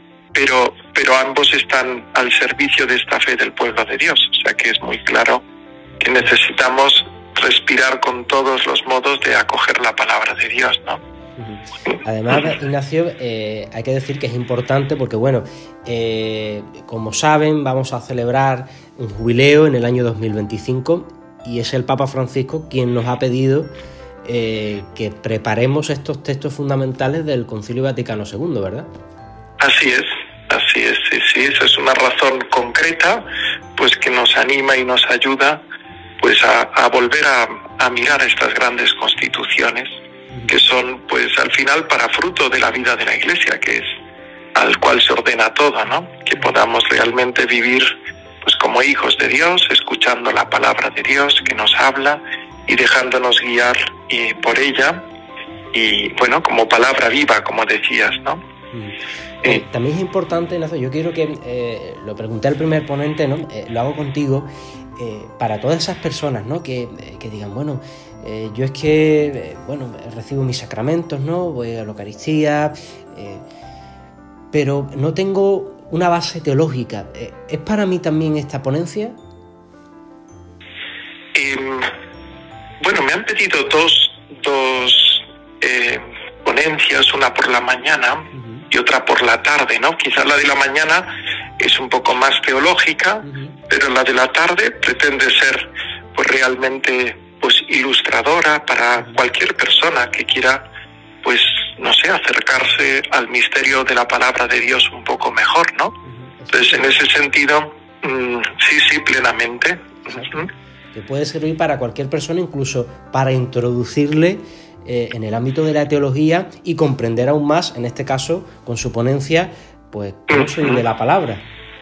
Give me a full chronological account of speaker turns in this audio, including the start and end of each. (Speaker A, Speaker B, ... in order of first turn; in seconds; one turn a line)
Speaker A: 0.3-5.4
Speaker A: 6.0-11.0
Speaker B: 11.4-23.7
Speaker B: 24.2-28.9
Speaker A: 29.6-33.2
Speaker A: 33.8-35.6
Speaker A: 36.2-39.9
Speaker A: 40.5-43.9
Speaker A: 44.5-55.0
Speaker A: 55.7-58.4
Speaker B: 58.7-73.4
Speaker B: 74.5-79.2
Speaker A: 81.3-81.9
Speaker A: 82.8-100.6
Speaker B: 88.3-88.6
Speaker B: 93.2-93.6
Speaker A: 101.2-105.9
Speaker B: 106.0-107.1
Speaker A: 106.5-110.5
Speaker B: 110.0-121.4
Speaker A: 120.3-120.8